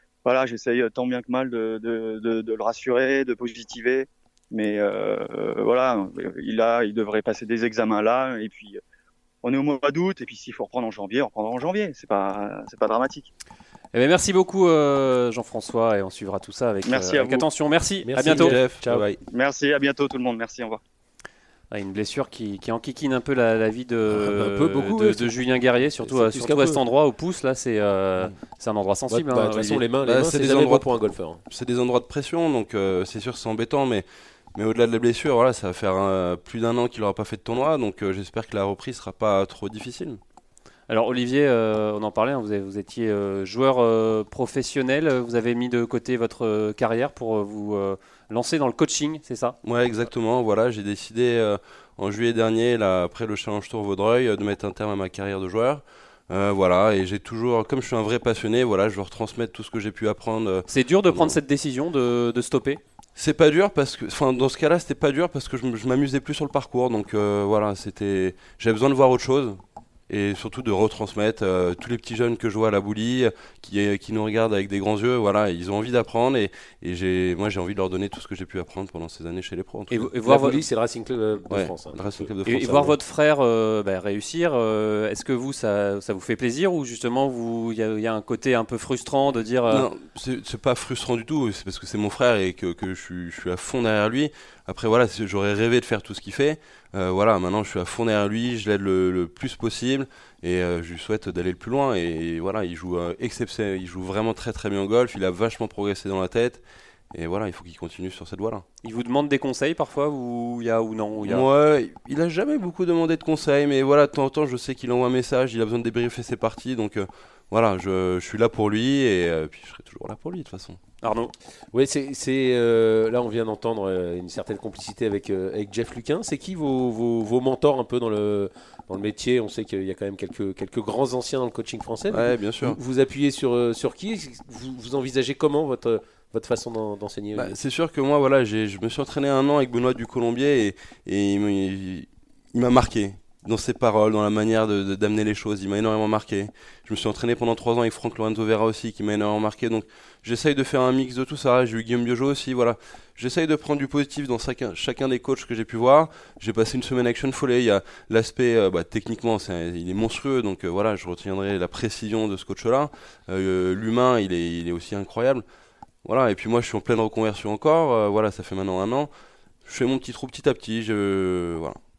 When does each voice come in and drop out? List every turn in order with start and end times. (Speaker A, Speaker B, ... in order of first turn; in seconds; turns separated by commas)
Speaker A: 0.2-8.8, Speaker A: 9.4-13.3, Speaker B: 13.9-18.6, Speaker A: 16.9-17.5, Speaker C: 18.0-19.1, Speaker D: 18.2-19.2, Speaker A: 19.3-20.8, Speaker B: 21.7-29.8, Speaker C: 24.1-25.3, Speaker C: 26.0-26.8, Speaker C: 29.1-31.4, Speaker D: 30.0-40.2, Speaker B: 40.9-49.6, Speaker D: 49.6-61.4, Speaker B: 60.7-62.8, Speaker D: 63.2-80.1, Speaker B: 79.9-80.6, Speaker C: 80.2-82.9, Speaker D: 81.5-83.0, Speaker B: 82.5-89.9, Speaker D: 89.7-108.7, Speaker B: 108.8-111.5, Speaker D: 111.3-120.8, Speaker B: 121.0-121.3, Speaker C: 121.7-137.6, Speaker D: 132.1-132.8, Speaker D: 137.3-165.4, Speaker D: 166.0-169.1, Speaker D: 169.7-171.8